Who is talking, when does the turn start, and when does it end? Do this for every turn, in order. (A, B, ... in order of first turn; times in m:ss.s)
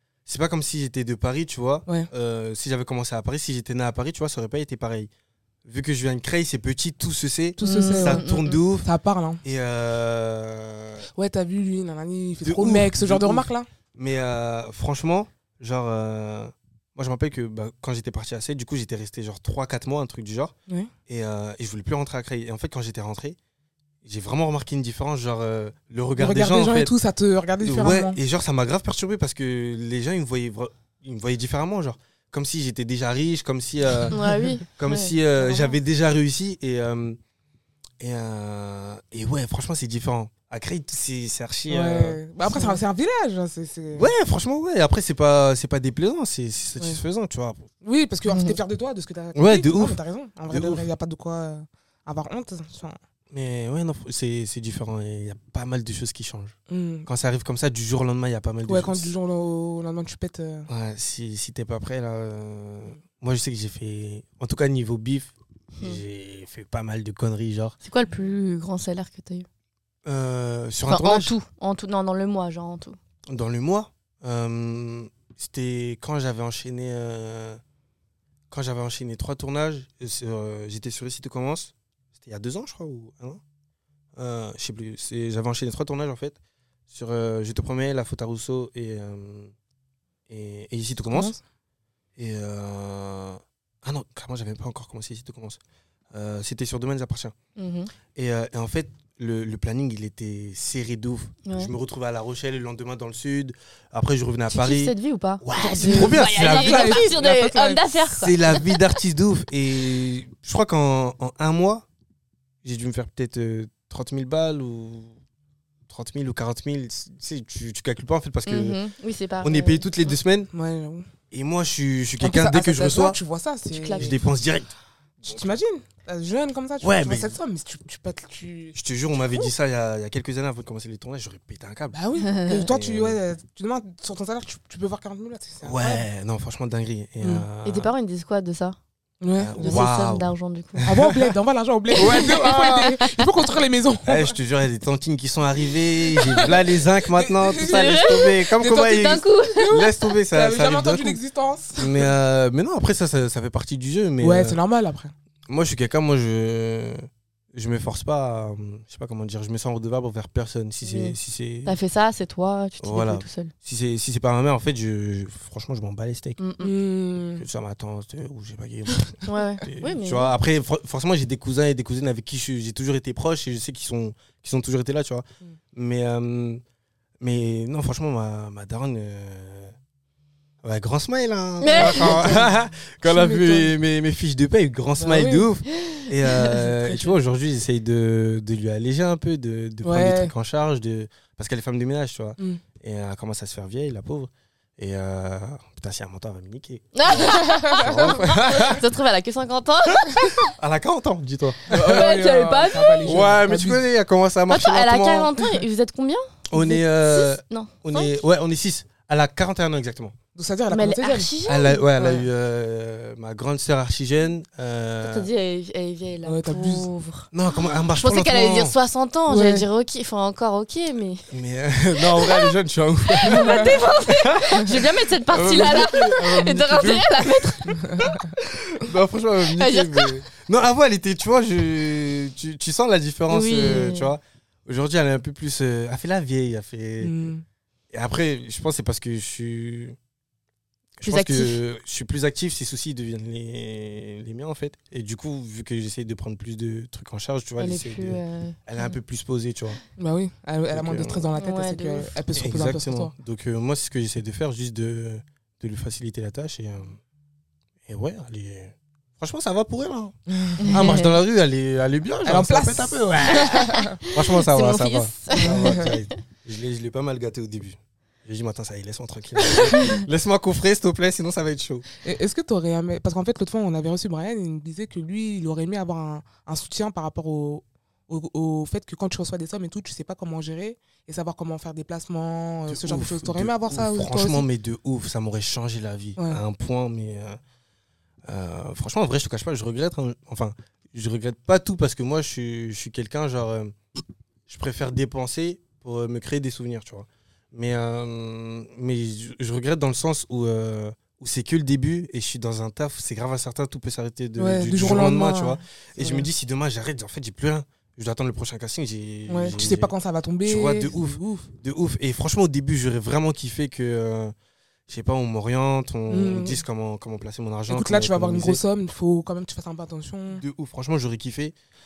0:00.2-0:05.1 A
0:05.6-0:08.9 A
0:07.6-0:08.2 B
0:07.6-0:08.6 C
0:08.8-0:09.4 B
0:09.4-0:11.1 A
0:11.1-0:13.7 B
0:12.4-0:20.5 A
0:20.7-0:20.9 B
0:21.1-0:23.4 A
0:24.0-0:26.9 A
0:26.2-0:28.2 B
0:27.6-0:37.2 A
0:34.1-0:34.4 B
0:34.1-0:35.8 C
0:38.0-0:42.2 A
0:41.7-0:44.1 B
0:44.0-0:47.7 A
0:47.8-0:53.0 B
0:48.2-0:48.6 C
0:49.3-0:50.9 A
0:53.3-0:59.1 A
0:56.7-0:57.1 B
0:58.6-1:00.7 B
1:00.7-1:07.8 A
1:07.8-1:09.5 C
1:10.0-1:11.3 A
1:10.9-1:13.0 C
1:13.3-1:17.6 A
1:18.5-1:23.4 A
1:24.2-1:26.4 A
1:26.9-1:29.5 A
1:30.3-1:31.4 A
1:31.1-1:31.4 B
1:32.2-1:35.6 A
1:36.1-1:37.3 A
1:37.6-1:37.9 C
1:38.1-1:47.2 A
1:41.4-1:41.7 C
1:44.5-1:48.8 C
1:45.6-1:47.9 B
1:48.1-1:51.8 A
1:52.6-1:55.2 A
1:55.9-1:58.8 A
1:58.5-1:59.9 C
1:59.4-2:00.5 A
2:00.5-2:01.0 B
2:01.3-2:03.2 A
2:02.2-2:04.2 B
2:03.7-2:04.2 C
2:03.9-2:05.5 A
2:05.2-2:08.8 B
2:06.8-2:07.3 A
2:08.7-2:12.0 A
2:11.9-2:16.0 B
2:12.2-2:12.7 C
2:12.6-2:13.2 A
2:15.6-2:17.9 A
2:17.2-2:17.4 B
2:17.6-2:18.8 C
2:19.2-2:19.9 B
2:19.4-2:21.3 A
2:19.6-2:20.9 C
2:20.8-2:24.4 B
2:21.9-2:23.2 C
2:22.0-2:22.7 A
2:24.0-2:31.2 A
2:26.2-2:26.5 B
2:27.2-2:28.1 B
2:27.6-2:29.9 C
2:28.6-2:32.1 B
2:31.8-2:34.6 A
2:34.2-2:35.1 B
2:35.5-2:41.8 A
2:40.8-2:43.5 C
2:42.8-2:46.4 A
2:46.4-2:46.7 C
2:46.6-2:47.4 B
2:47.4-2:56.6 A
2:49.2-2:50.3 C
2:57.2-2:59.7 A
3:00.6-3:18.8 A
3:01.6-3:02.4 C
3:01.6-3:02.5 B
3:03.0-3:03.7 B
3:05.0-3:05.5 B
3:05.8-3:07.0 C
3:09.8-3:10.3 B
3:16.9-3:20.5 C
3:17.2-3:18.2 B
3:19.9-3:22.0 A
3:21.7-3:23.8 B
3:21.8-3:23.2 C
3:23.0-3:25.3 A
3:24.5-3:27.7 C
3:26.5-3:30.2 A
3:26.5-3:26.8 B
3:30.3-3:31.3 B
3:30.7-3:31.8 C
3:31.4-3:35.3 A
3:31.9-3:32.2 B
3:35.0-3:37.3 C
3:36.2-3:36.9 B
3:37.3-3:38.7 A
3:38.0-3:41.3 C
3:39.3-3:39.7 B
3:41.3-3:57.3 A
3:42.0-3:42.5 C
3:43.2-3:47.8 C
3:43.3-3:43.7 B
3:47.7-3:48.3 B
3:49.6-3:50.1 C
3:53.3-3:54.1 C
3:57.0-3:57.4 B
3:57.9-4:00.0 A
4:01.0-4:09.8 A
4:01.0-4:01.6 C
4:07.6-4:08.8 C
4:10.0-4:13.1 B
4:10.7-4:11.3 A
4:11.4-4:12.1 C
4:12.3-4:17.0 A
4:17.9-4:20.1 A
4:20.3-4:21.2 B
4:20.6-4:21.0 C
4:20.7-4:31.8 A
4:22.2-4:24.0 B
4:23.5-4:26.0 C
4:25.4-4:25.9 B
4:32.0-4:44.5 B
4:42.7-4:47.4 A
4:48.3-4:53.7 A
4:54.5-5:09.9 A
5:04.4-5:06.3 B
5:09.3-5:11.5 B
5:10.4-5:14.3 A
5:14.9-5:18.6 A
5:16.1-5:16.6 B
5:17.7-5:20.4 B
5:20.3-5:21.5 A